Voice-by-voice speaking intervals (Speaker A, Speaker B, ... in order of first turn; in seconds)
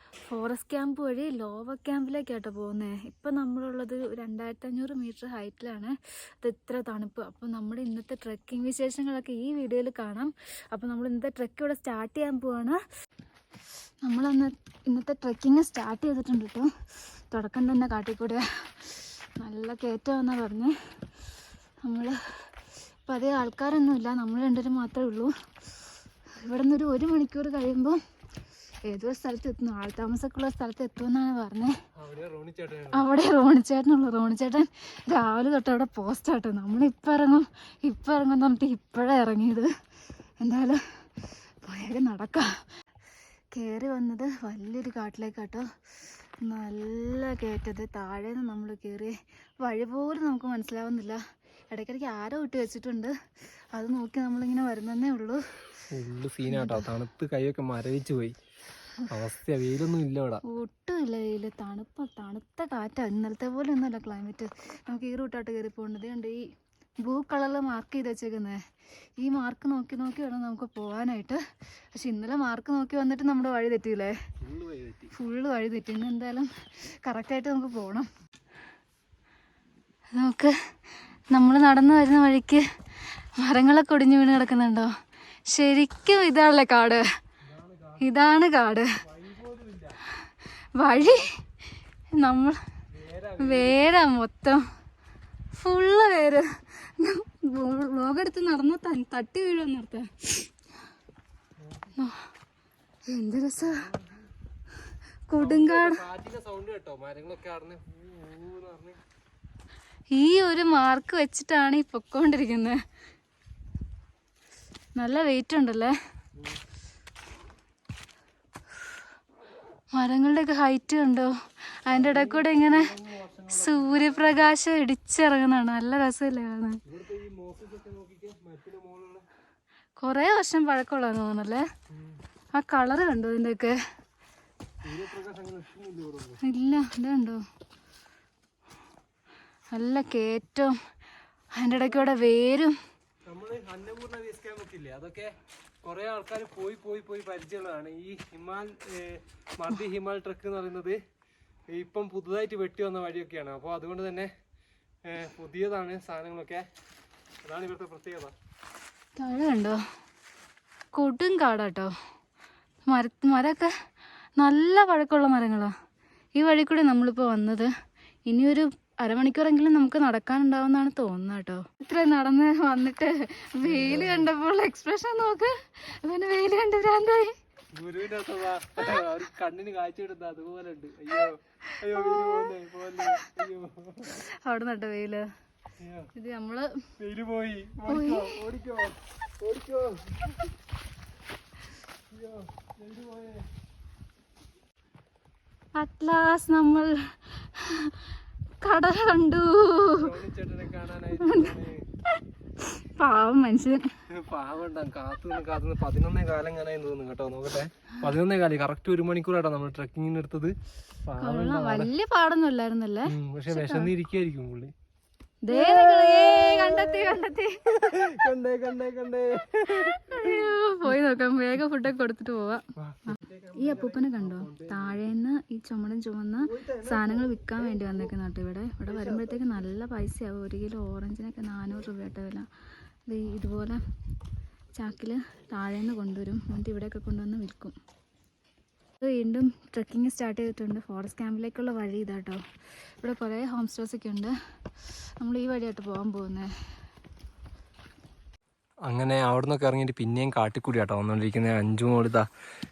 Speaker A: 0.3-12.8, 14.0-16.7, 17.3-20.8, 21.8-22.5, 23.1-25.3, 26.4-28.0, 28.9-31.7, 32.9-39.7, 40.4-40.8, 41.6-42.5, 43.5-45.7, 46.4-51.2, 51.7-53.1, 53.7-55.4, 56.5-56.9, 60.5-66.4, 67.0-68.6, 69.2-71.4, 72.0-74.2, 75.1-78.1, 80.1-80.5, 81.3-82.6, 83.4-84.9, 85.5-87.0, 88.0-88.9, 90.8-91.3, 92.2-92.6, 93.4-94.6, 95.5-100.5, 102.0-102.3, 103.1-103.9, 105.3-106.0, 110.1-112.8, 115.0-115.9, 120.0-122.9, 123.5-126.8, 130.0-131.7, 132.5-133.8, 136.4-137.4, 139.7-140.8, 141.5-142.8, 159.2-159.8, 160.9-161.9, 162.9-163.7, 164.4-165.7, 166.4-167.7, 168.3-177.4, 181.2-183.3, 184.1-185.3, 186.2-186.7, 187.9-188.4, 195.8-198.1, 198.6-200.1, 201.2-201.6, 202.1-203.8, 211.2-213.9, 215.4-217.6, 219.7-232.5, 233.1-233.8, 234.8-237.8, 239.0-242.4, 243.0-244.3, 245.2-246.5
Speaker B: 32.0-33.1, 55.9-58.4, 59.1-60.4, 74.4-75.1, 87.5-88.1, 89.0-90.0, 92.9-93.8, 101.6-102.0, 103.6-104.2, 105.4-109.0, 116.4-116.6, 121.9-124.5, 126.9-129.3, 131.9-132.2, 134.8-136.4, 141.7-142.2, 143.3-145.3, 145.8-151.0, 151.7-154.3, 155.1-156.7, 157.4-158.3, 173.6-174.3, 177.7-184.2, 185.8-186.1, 187.0-190.3, 192.1-193.5, 199.9-201.8, 204.1-210.6, 211.1-211.9, 213.1-214.7, 215.5-220.9, 222.8-225.1, 226.5-228.1, 228.9-229.5, 248.9-252.3